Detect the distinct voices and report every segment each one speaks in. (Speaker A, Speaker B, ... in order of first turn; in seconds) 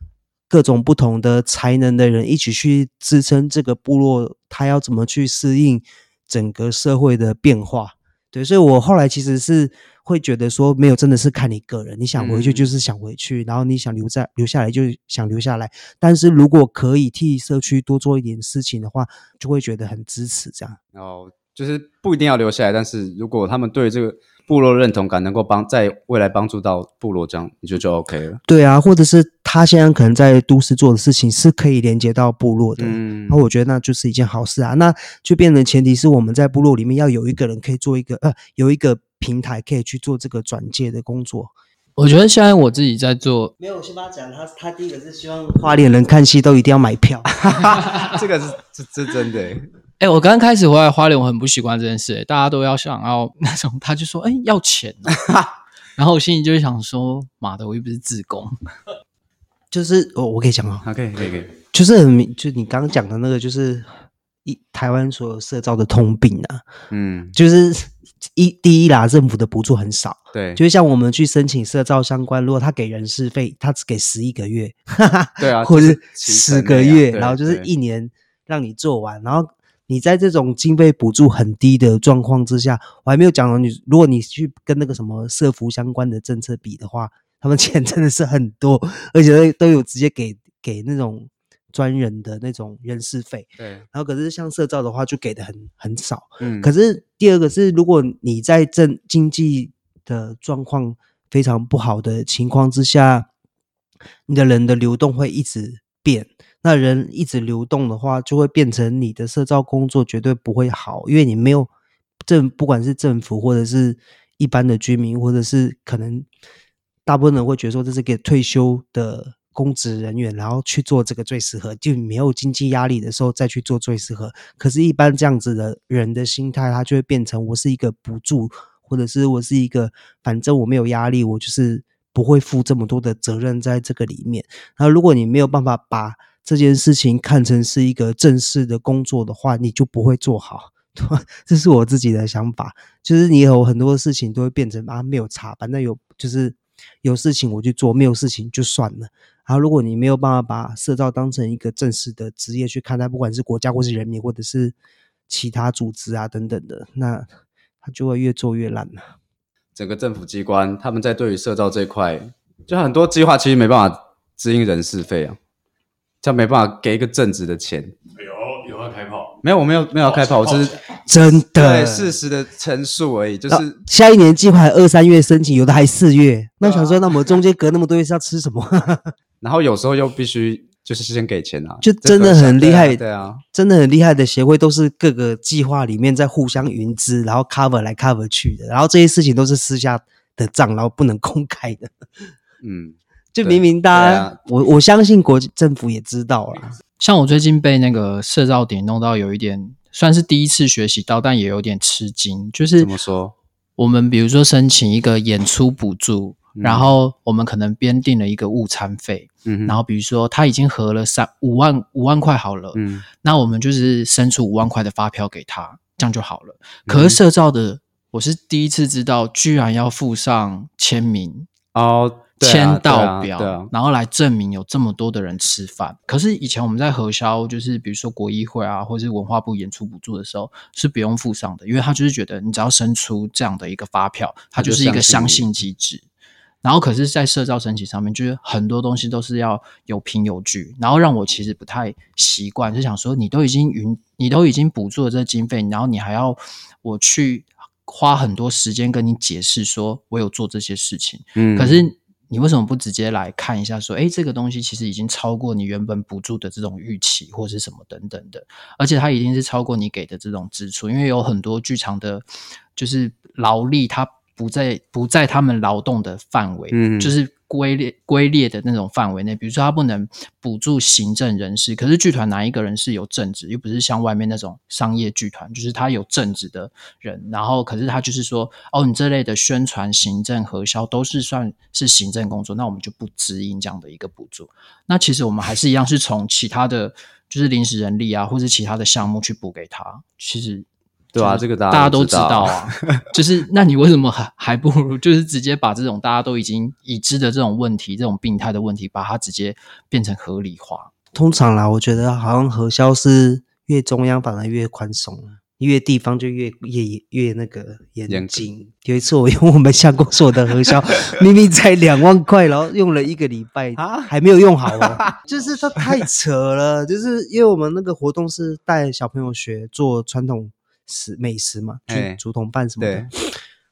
Speaker A: 0.5-20.8, 28.5-41.5, 43.6-47.3, 59.7-60.9, 61.7-63.9, 64.5-66.7, 67.3-103.3, 104.3-111.7, 112.2-116.3, 117.1-154.8, 155.3-157.3, 157.8-159.0, 171.1-172.2, 173.5-179.1, 181.8-183.0, 183.5-191.9, 193.3-196.8, 301.1-323.4
Speaker B: 12.2-12.7, 20.9-28.4, 32.8-33.4, 47.4-49.7, 55.2-55.5, 60.8-61.5, 66.9-67.4, 70.3-70.6, 75.4-77.7, 93.6-93.9, 96.4-96.7, 159.8-165.4, 166.2-168.0, 169.4-170.8, 171.5-173.8, 179.4-183.4, 192.6-194.4, 202.8-203.3, 206.6-206.9, 209.5-209.8, 212.8-213.1, 216.9-217.2, 221.7-223.7, 234.6-235.4, 251.4-251.8, 266.7-267.1, 291.1-293.0, 308.1-308.4, 313.8-314.1, 314.7-315.2, 321.9-322.2, 322.8-323.1
Speaker C: 42.0-43.5, 50.0-55.2, 56.0-58.5, 197.0-202.9, 203.8-221.5, 222.4-236.1, 236.6-262.2, 262.8-300.9
Speaker D: 168.2-169.4, 170.1-170.8